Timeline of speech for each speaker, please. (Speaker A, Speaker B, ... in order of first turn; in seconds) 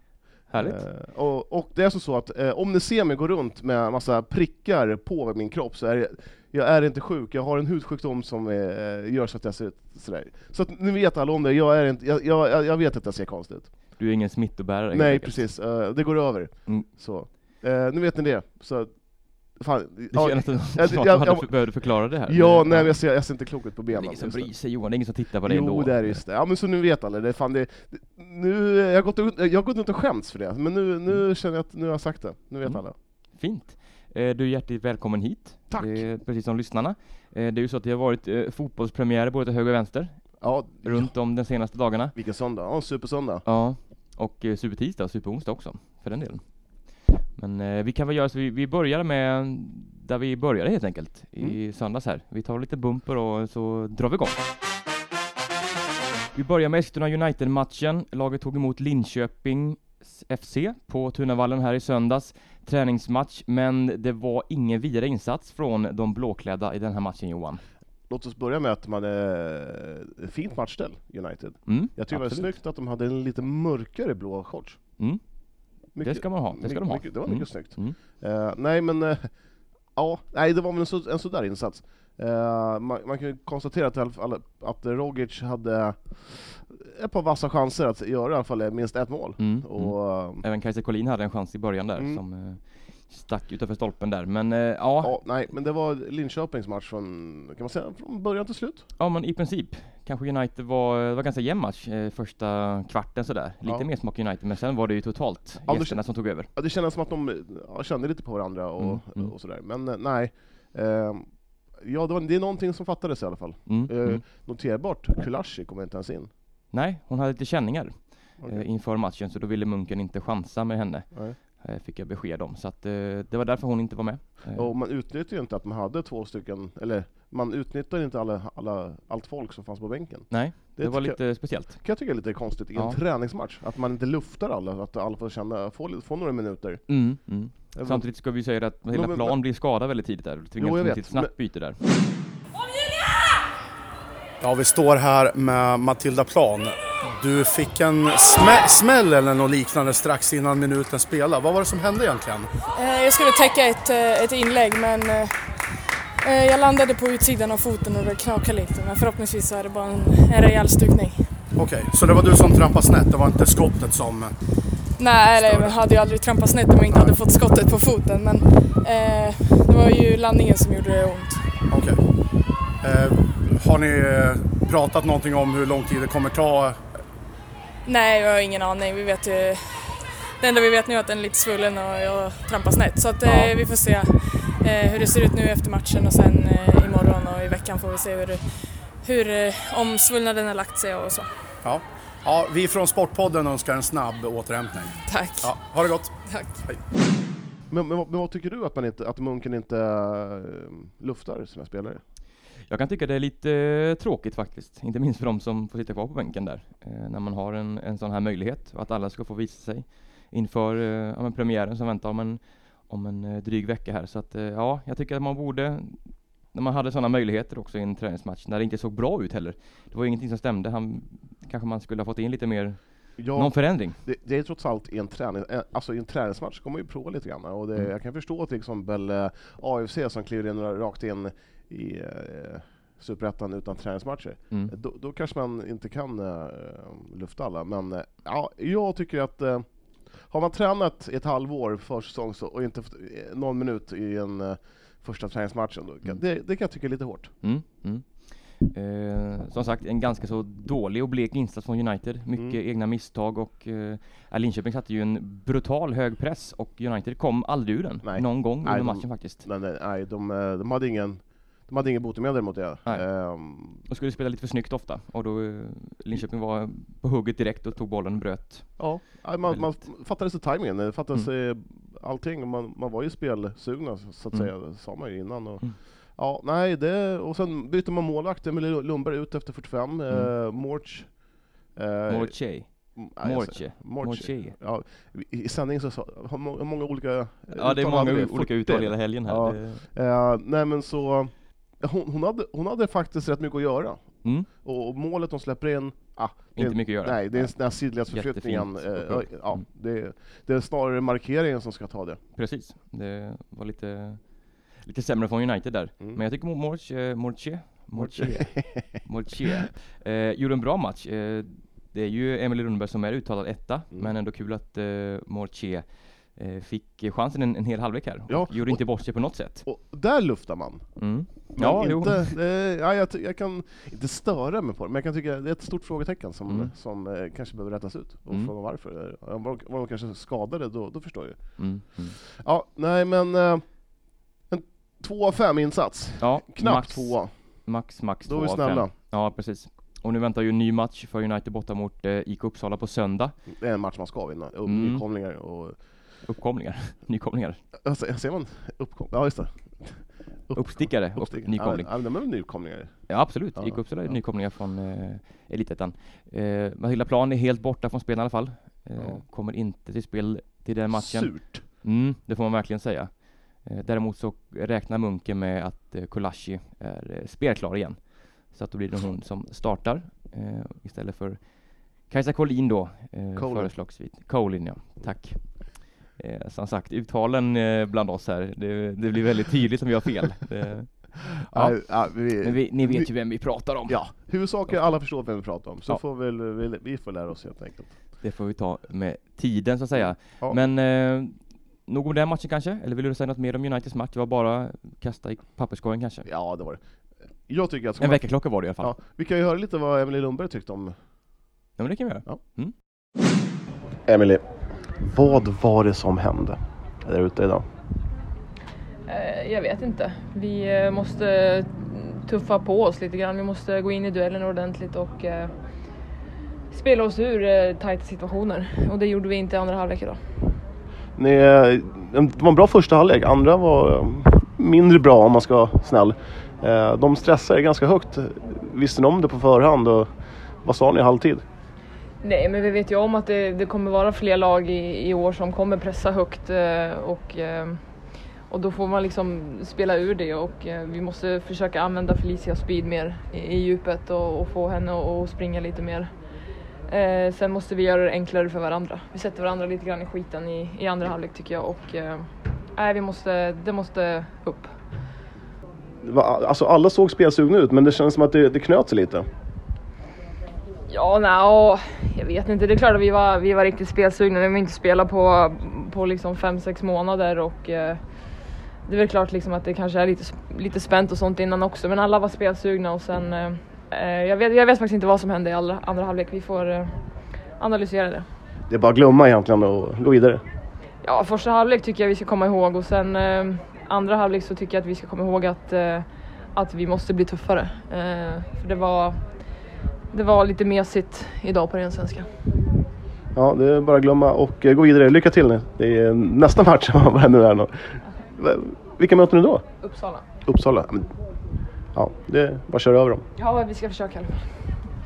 Speaker A: 0.4-13.8, 14.9-24.5, 25.4-33.0, 35.7-36.1, 40.4-41.2, 42.1-43.5, 68.1-75.0, 75.9-90.4, 91.9-92.2, 95.0-98.9, 103.6-103.9, 105.7-116.3, 118.4-118.7, 121.1-121.4, 124.5-138.2, 138.9-139.4, 140.6-141.3, 197.7-202.0, 223.2-247.3, 252.3-252.6, 258.0-263.8, 268.8-302.2, 307.9-309.0, 318.3-334.0, 334.5-337.7, 338.2-338.9, 343.5-345.8, 347.8-354.2, 359.0-359.2, 360.9-361.7, 373.3-373.7, 381.5-387.9, 396.2-396.8, 397.4-400.9, 404.1-407.6, 421.1-430.1, 430.6-431.4, 456.0-459.3, 478.7-480.4, 493.3-499.6, 500.4-501.1, 501.9-503.3
Speaker B: 0.5-0.8, 13.9-15.5, 20.1-23.0, 23.9-26.2, 32.6-42.1, 43.4-54.4, 56.3-67.6, 71.7-72.5, 75.0-78.0, 89.4-95.2, 99.0-106.5, 108.8-109.3, 113.7-114.2, 116.7-124.7, 130.3-132.0, 136.9-141.8, 183.2-183.5, 202.6-224.0, 247.4-259.4, 262.8-269.9, 274.3-275.1, 280.1-280.3, 282.1-284.6, 287.5-289.9, 296.6-299.6, 302.3-319.6, 321.0-322.3, 326.5-326.7, 331.6-332.2, 336.2-343.4, 344.6-345.0, 346.2-347.6, 350.5-351.9, 353.1-386.0, 388.2-396.3, 398.0-398.9, 401.8-402.7
Speaker C: 144.4-152.5, 161.6-164.3, 165.3-165.8, 166.9-167.1, 171.7-172.0, 172.8-176.8, 191.6-196.8
Speaker D: 152.7-155.4, 156.2-161.3, 165.0-171.5, 177.8-191.3, 195.0-196.6
Speaker E: 409.1-415.5, 416.7-420.2, 432.2-437.9, 438.5-446.1, 446.9-454.7, 460.9-468.0, 468.9-476.9, 477.6-478.3, 481.0-489.3, 490.1-492.3, 499.8-500.2, 503.4-504.5